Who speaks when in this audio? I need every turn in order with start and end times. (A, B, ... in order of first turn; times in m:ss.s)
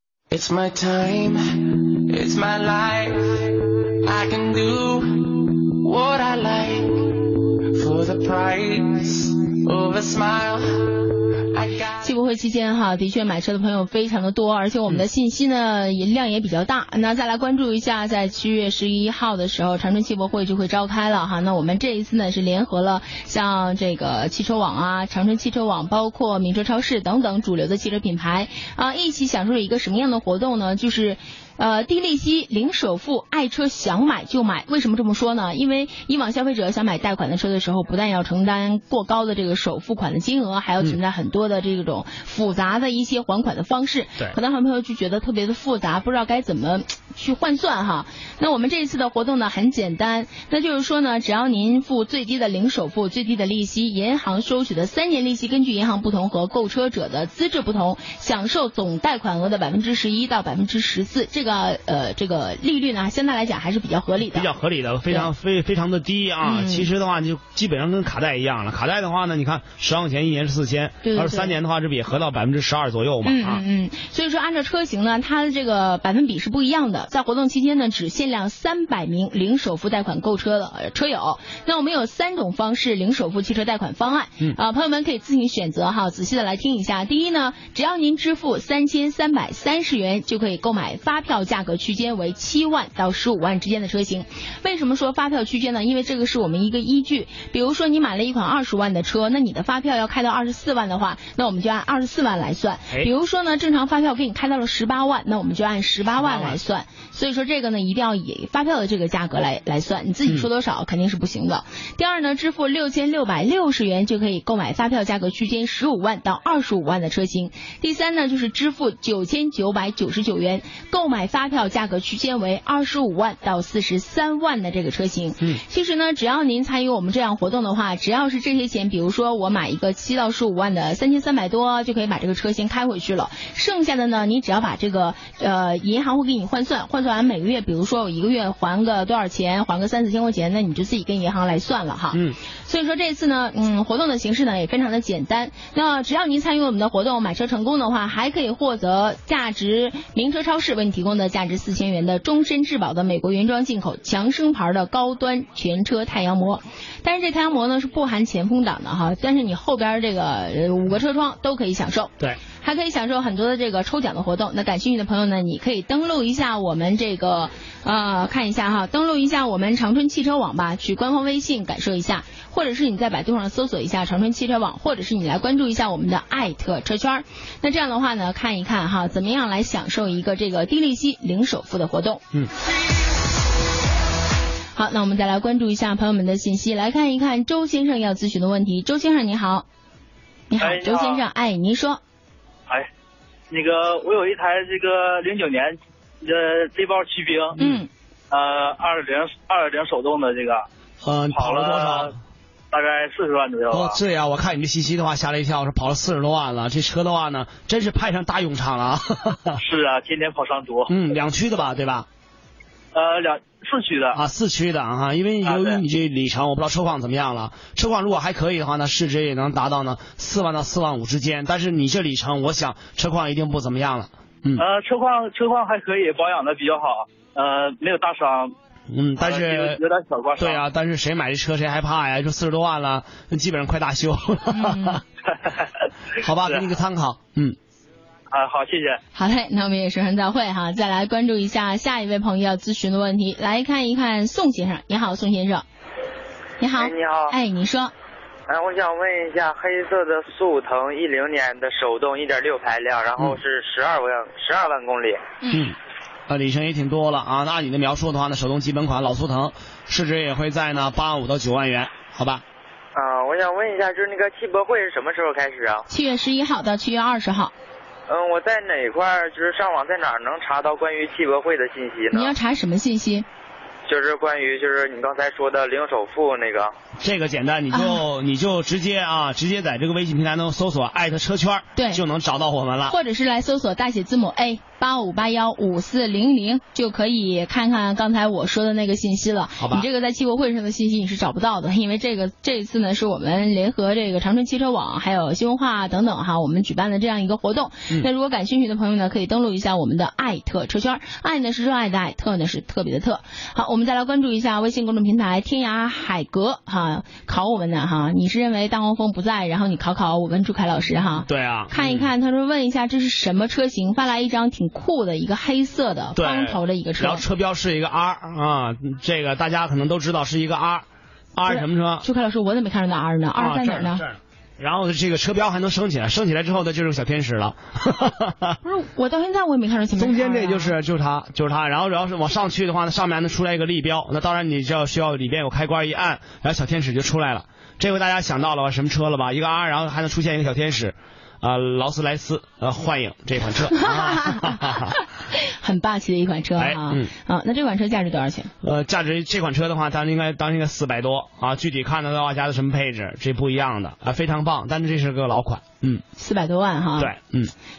0:00.3-0:12.1 A
0:12.0-1:04.5 B
1:04.2-1:13.6 C
1:06.4-1:06.9 B
1:11.0-1:11.6 B
1:13.2-3:02.2 B
1:46.2-1:46.6 C
3:04.8-3:09.7 B
3:10.5-3:12.0 B
3:10.6-3:11.2 D
3:13.5-3:17.6 D
3:17.6-3:17.9 B
3:18.3-3:20.7 D
3:21.0-3:22.2 C
3:21.3-3:22.1 D
3:22.7-3:24.0 D
3:23.7-3:29.6 C
3:29.6-3:30.9 D
3:30.9-3:32.1 C
3:33.0-3:34.2 D
3:34.1-3:44.6 C
3:35.4-3:35.8 D
3:44.6-3:48.5 D
3:48.9-3:49.8 C
3:49.2-3:50.6 D
3:50.4-3:55.0 C
3:54.5-3:55.0 B
3:56.2-3:57.6 C
3:58.3-3:59.0 D
3:59.2-4:05.6 B
4:06.6-4:07.9 B
4:06.8-4:07.4 E
4:08.5-4:15.2 E
4:16.3-4:22.4 C
4:22.9-4:25.9 E
4:25.9-4:27.5 B
4:28.1-4:32.3 E
4:32.1-4:33.3 B
4:33.9-4:36.7 E
4:37.0-4:43.0 C
4:37.7-4:38.0 B
4:41.8-4:42.0 B
4:42.9-5:17.2 B
4:49.6-4:49.9 C
5:11.3-5:12.1 C
5:16.2-5:22.0 C
5:21.5-5:24.1 B
5:23.4-5:28.6 C
5:28.6-5:30.8 B
5:30.0-5:45.0 C
5:43.8-5:44.7 B
5:45.3-5:48.5 B
5:46.6-5:47.1 C
5:48.6-5:56.0 C
5:56.2-5:57.1 B
5:57.0-5:57.5 C